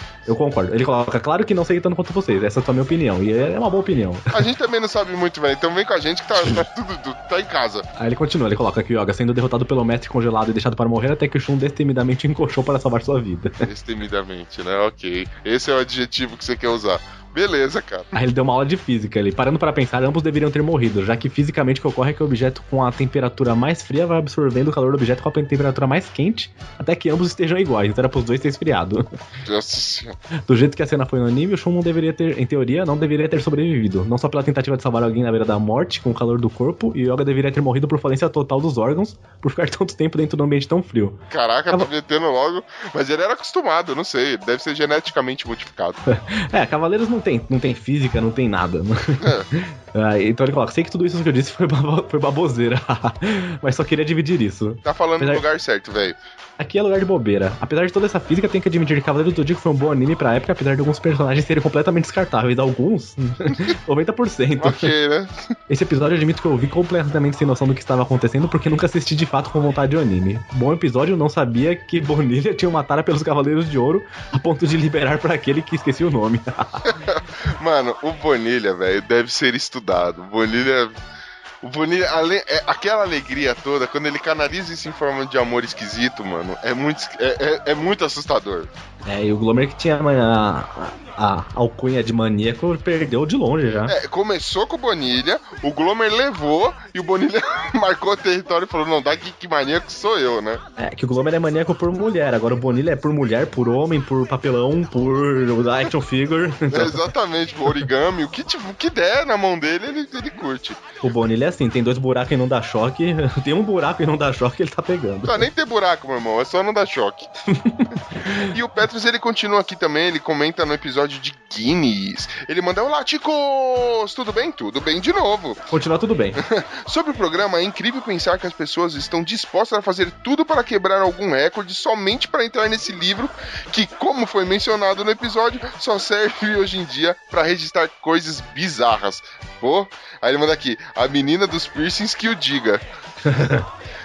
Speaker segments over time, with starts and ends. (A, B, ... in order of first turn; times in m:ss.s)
0:00.3-0:04.3 A
0:04.3-0:07.9 B
0:08.0-0:13.6 A
0:13.6-0:18.1 B
0:18.1-0:29.2 A
0:29.4-0:30.2 B
0:30.5-0:41.9 A
0:41.3-0:46.0 B
0:46.1-0:49.4 A
0:49.2-0:49.5 B
0:49.9-0:55.4 A
0:54.8-0:56.2 B
0:56.6-1:04.9 A
1:04.6-1:05.5 B
1:05.7-1:16.8 A
1:16.9-1:20.9 B
1:21.6-1:28.7 B
1:29.0-1:34.0 A
1:33.9-1:40.6 B
1:40.8-1:47.0 A
1:46.7-1:50.8 B
1:51.0-1:55.5 A
1:55.2-1:57.3 B
1:57.5-1:57.9 A
1:58.4-2:05.6 B
2:05.7-2:06.4 A
2:06.4-2:23.6 B